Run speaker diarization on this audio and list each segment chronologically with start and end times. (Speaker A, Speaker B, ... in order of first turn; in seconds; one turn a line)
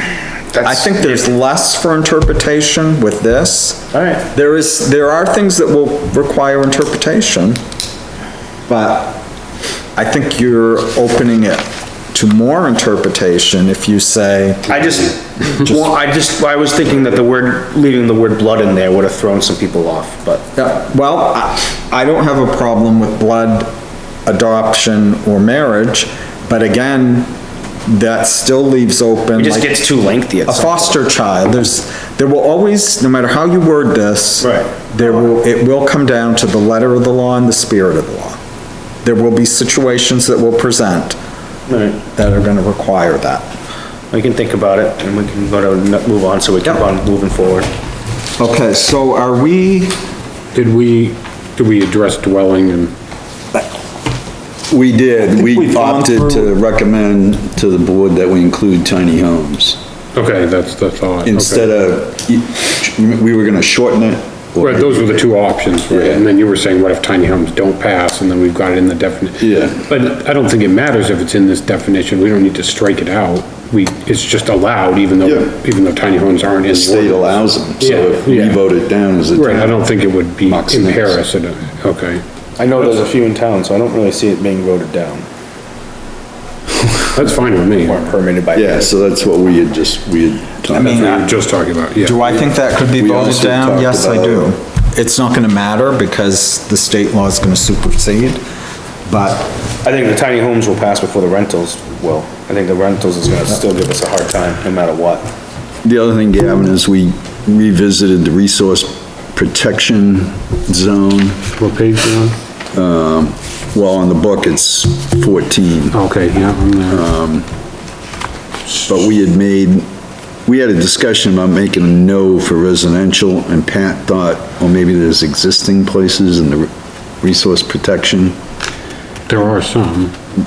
Speaker A: 0.5-1.2
Speaker B: 0.6-7.6
Speaker A: 3.9-4.3
Speaker B: 8.7-9.2
Speaker B: 9.9-14.9
Speaker A: 14.7-20.4
Speaker B: 15.6-15.9
Speaker B: 20.5-23.7
Speaker B: 24.2-27.3
Speaker B: 27.9-29.8
Speaker A: 29.4-31.0
Speaker B: 30.5-38.4
Speaker A: 34.4-34.8
Speaker B: 39.0-41.2
Speaker A: 41.7-42.0
Speaker B: 42.1-43.5
Speaker A: 44.1-47.7
Speaker B: 48.4-50.0
Speaker C: 50.5-52.9
Speaker D: 54.7-59.8
Speaker B: 55.1-56.5
Speaker C: 60.1-61.7
Speaker D: 61.2-65.3
Speaker C: 64.6-78.6
Speaker D: 65.9-66.2
Speaker D: 69.4-69.8
Speaker D: 75.2-75.5
Speaker D: 76.7-79.9
Speaker C: 79.3-82.2
Speaker D: 80.4-81.2
Speaker A: 82.6-85.2
Speaker C: 86.9-88.1
Speaker A: 87.7-88.9
Speaker D: 88.5-91.0
Speaker B: 90.7-91.4
Speaker C: 90.7-92.3
Speaker B: 92.0-98.4
Speaker D: 92.9-94.5
Speaker B: 99.0-99.5
Speaker A: 99.8-105.3
Speaker D: 105.8-111.4
Speaker C: 111.6-112.4
Speaker D: 112.7-116.0
Speaker C: 115.9-117.1
Speaker D: 116.9-117.5
Speaker D: 118.9-119.8
Speaker D: 120.5-126.7
Speaker D: 127.2-128.4
Speaker C: 129.3-130.1